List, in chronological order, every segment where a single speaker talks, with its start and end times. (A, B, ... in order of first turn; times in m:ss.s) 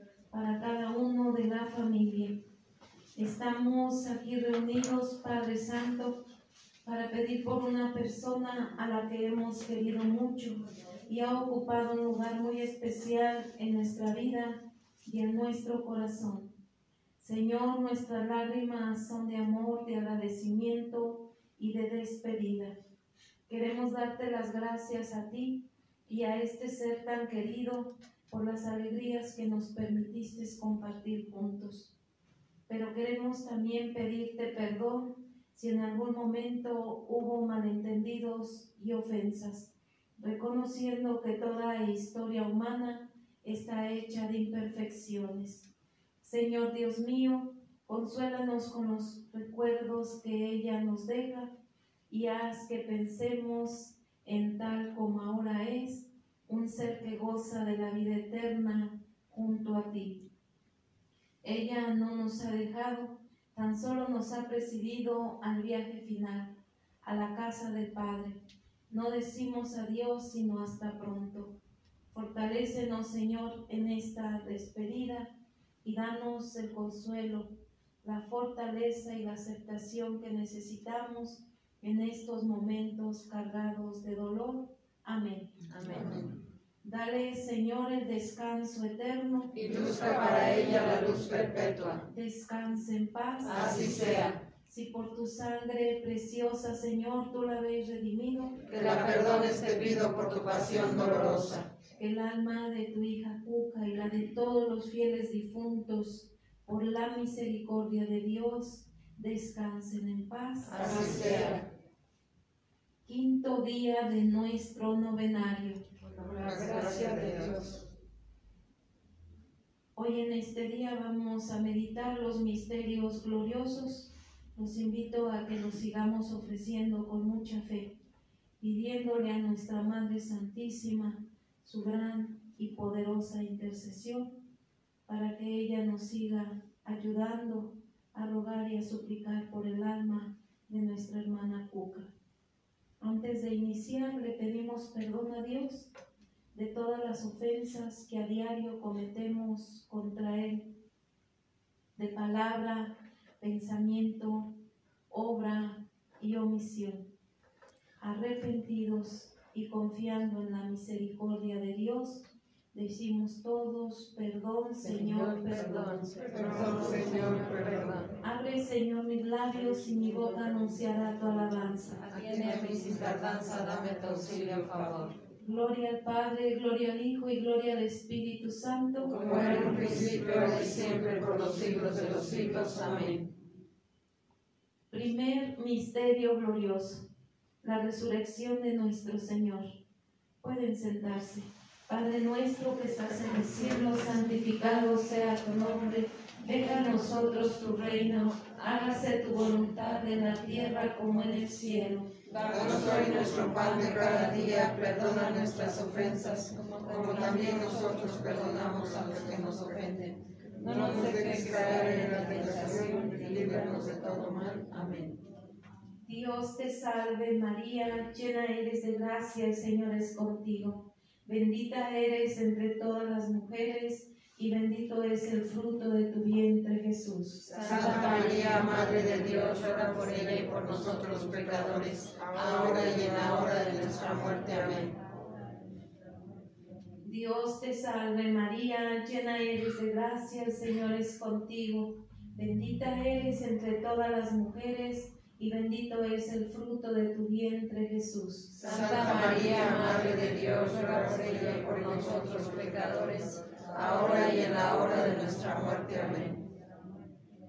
0:00.3-0:02.4 A
0:03.2-0:06.2 A
0:06.8-0:16.5 A
0:17.2-0:22.8 A
0:23.5-0:31.9 A
0:32.7-0:45.7 A
0:46.2-0:51.5 A
0:52.1-1:00.2 A
1:01.4-1:11.6 A
1:12.1-1:15.3 A
1:15.8-1:17.5 A
1:18.0-1:25.5 A
1:25.7-1:26.4 B
1:26.8-1:29.5 A
1:29.5-1:32.0 B
1:32.1-1:33.9 A
1:33.4-1:34.4 B
1:34.7-1:38.6 A
1:38.6-1:41.7 B
1:42.0-1:51.1 A
1:50.7-1:51.7 B
1:53.0-1:55.8 A
1:56.3-1:57.8 B
2:00.0-2:08.0 A
2:08.6-2:14.3 A
2:15.1-2:22.1 A
2:23.0-2:25.9 A
2:26.5-2:30.7 A
2:32.0-2:34.5 A
2:35.1-2:37.1 A
2:38.0-2:46.2 A
2:45.1-2:48.1 B
2:48.2-2:52.0 A
2:52.0-2:55.2 B
2:55.4-2:59.2 A
2:59.2-3:03.3 B
3:04.9-3:07.1 A
3:07.6-3:09.7 A
3:10.4-3:22.1 A
3:22.3-3:35.2 B
3:36.1-3:47.9 A
3:47.6-3:55.0 B
3:57.0-4:08.6 A
4:08.6-4:16.4 B